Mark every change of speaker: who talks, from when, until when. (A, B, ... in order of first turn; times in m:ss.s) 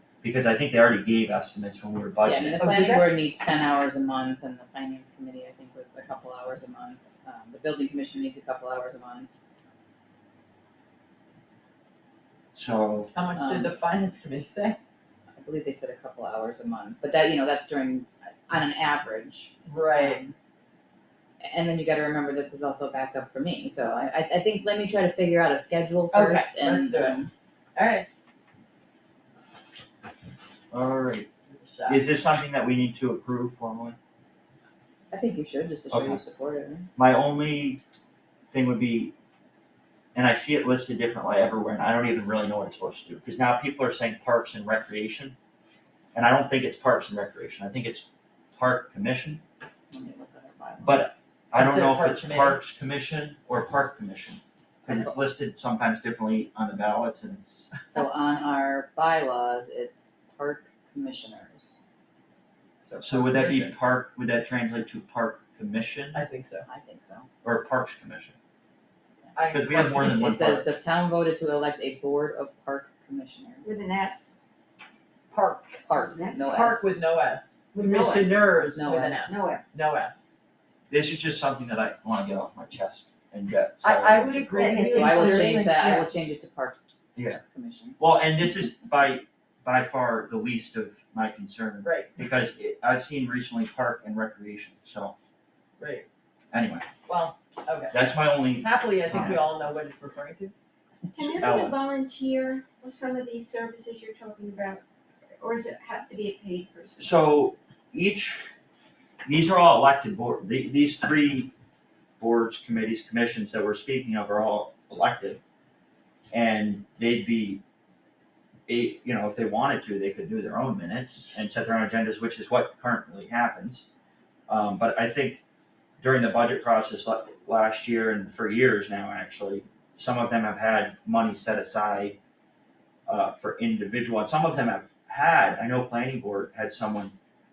0:00.2-0:02.6 A
0:02.2-0:09.3 B
0:02.6-0:03.1 C
0:12.5-0:13.1 A
0:13.1-0:14.8 C
0:13.4-0:13.7 B
0:15.4-0:20.3 B
0:19.7-0:20.2 C
0:21.4-0:27.3 B
0:26.1-0:27.2 C
0:27.8-0:28.1 C
0:30.7-0:31.3 A
0:31.5-0:32.0 C
0:31.9-0:34.0 A
0:35.1-0:36.9 B
0:35.9-0:36.2 A
0:37.0-0:37.8 A
0:38.5-0:39.1 A
0:40.2-0:45.4 A
0:46.1-0:49.4 A
0:49.9-0:51.0 B
0:50.8-0:57.7 A
0:51.5-0:52.6 C
0:57.8-1:01.8 B
1:02.9-1:03.7 C
1:03.0-1:06.2 A
1:06.1-1:06.7 C
1:06.6-1:07.3 B
1:07.4-1:08.4 A
1:09.2-1:13.8 B
1:09.4-1:10.3 C
1:09.5-1:10.7 A
1:13.6-1:14.4 D
1:15.3-1:20.3 C
1:15.9-1:16.9 B
1:16.0-1:16.6 D
1:17.7-1:18.4 D
1:18.5-1:19.4 B
1:19.2-1:19.7 D
1:20.9-1:24.8 A
1:23.8-1:26.1 C
1:24.6-1:25.7 D
1:24.7-1:26.8 B
1:27.2-1:27.4 A
1:27.5-1:28.0 B
1:28.0-1:35.2 A
1:31.8-1:32.1 C
1:35.8-1:36.1 C
1:36.5-1:36.9 A
1:37.1-1:37.9 C
1:37.9-1:39.5 A
1:38.6-1:40.5 C
1:41.2-1:44.8 D
1:41.4-1:41.8 A
1:45.4-1:47.1 D
1:47.0-1:48.4 A
1:49.3-1:51.5 A
1:52.2-1:55.4 A
1:56.3-1:57.6 A
1:58.7-2:03.9 A
2:04.5-2:05.4 A
2:06.0-2:12.2 A
2:13.1-2:17.2 A